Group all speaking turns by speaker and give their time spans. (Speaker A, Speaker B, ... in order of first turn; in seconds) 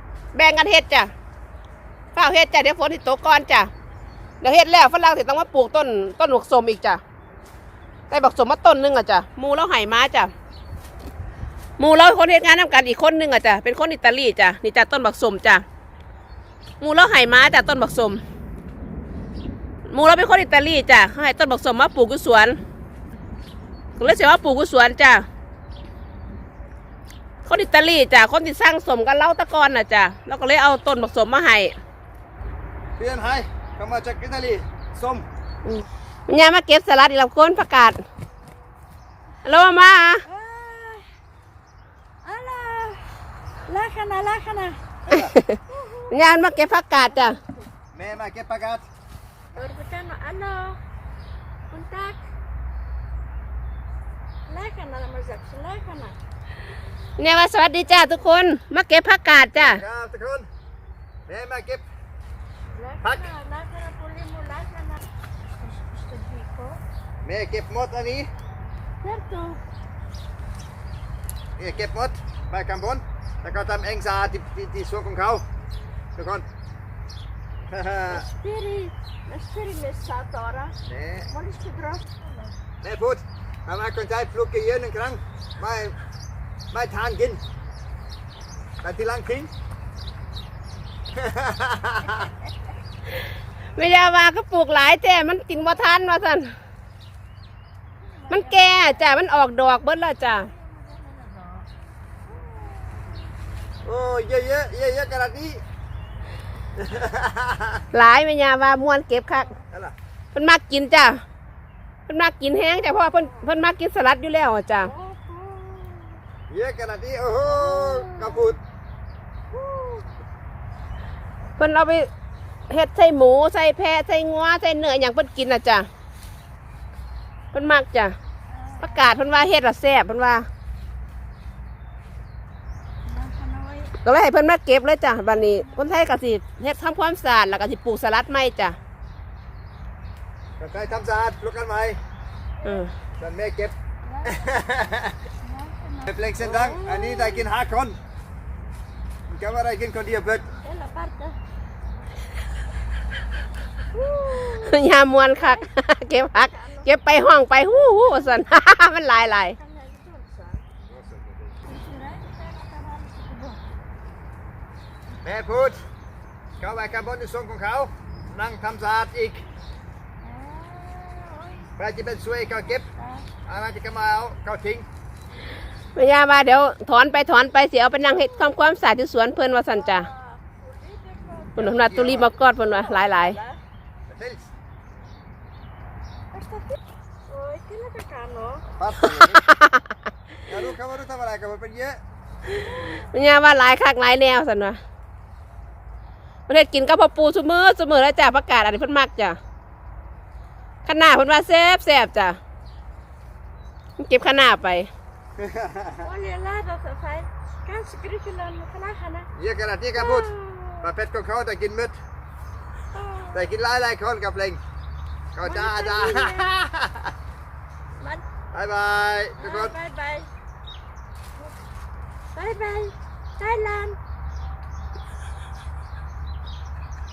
Speaker A: 0.3-1.1, 2.1-3.7, 4.4-7.0, 8.1-10.3, 11.8-15.6, 16.8-18.2, 19.9-22.6, 24.0-25.3, 27.4-31.8, 35.7-38.0, 39.5-40.2, 45.1-47.4, 57.2-59.8, 93.7-96.5, 98.3-100.5, 107.9-109.5, 110.3-111.2, 112.1-114.9, 121.6-122.1, 122.7-125.9, 127.5-128.2, 128.8-130.5, 134.1-138.8, 142.6-142.9, 154.5-159.6, 176.0-180.1, 181.6-183.4, 189.1-189.9, 192.9-194.8, 196.5-199.4, 200.8-202.4, 204.0-204.9
Speaker B: 33.0-35.3, 47.9-48.9, 59.6-60.5, 61.3-61.9, 63.0-63.3, 67.2-68.3, 71.6-75.5, 76.2-76.5, 77.7-78.2, 80.9-81.3, 82.8-86.0, 86.7-87.4, 88.8-89.5, 91.1-92.3, 103.8-105.6, 106.8-107.8, 116.5-118.6, 140.6-142.0, 143.2-145.2, 146.1-148.0, 149.3-150.5, 160.9-161.6, 165.2-165.8, 166.6-169.4, 171.8-172.9, 173.5-174.9, 181.6-182.3, 184.1-184.5, 188.8-189.5, 190.5-192.0, 205.4-206.1, 209.4-210.3, 210.8-212.0, 213.3-214.6, 215.3-217.1, 218.5-219.8
Speaker C: 40.2-41.1, 42.2-44.8, 45.7-46.2, 49.5-50.8, 51.7-52.2, 54.5-56.2, 62.7-65.0, 65.6-66.8, 69.0-69.6, 78.1-80.8, 81.3-82.5, 98.1-99.1, 100.3-101.7, 102.3-103.0, 112.9-113.4, 114.8-116.2, 117.5-118.5, 119.5-120.0, 128.5-129.3, 133.1-133.9, 135.3-136.0, 144.1-144.5, 145.4-147.4, 150.6-151.4, 153.9-154.8, 155.3-155.7, 156.3-156.9, 157.6-158.4, 159.1-160.7, 161.7-163.6, 170.2-171.7, 172.7-173.3, 179.7-183.6, 186.3-186.8, 187.3-188.7, 206.0-209.3, 209.9-210.9, 212.9-213.5, 215.4-216.6, 218.0-218.2, 219.4-220.3, 222.3-224.0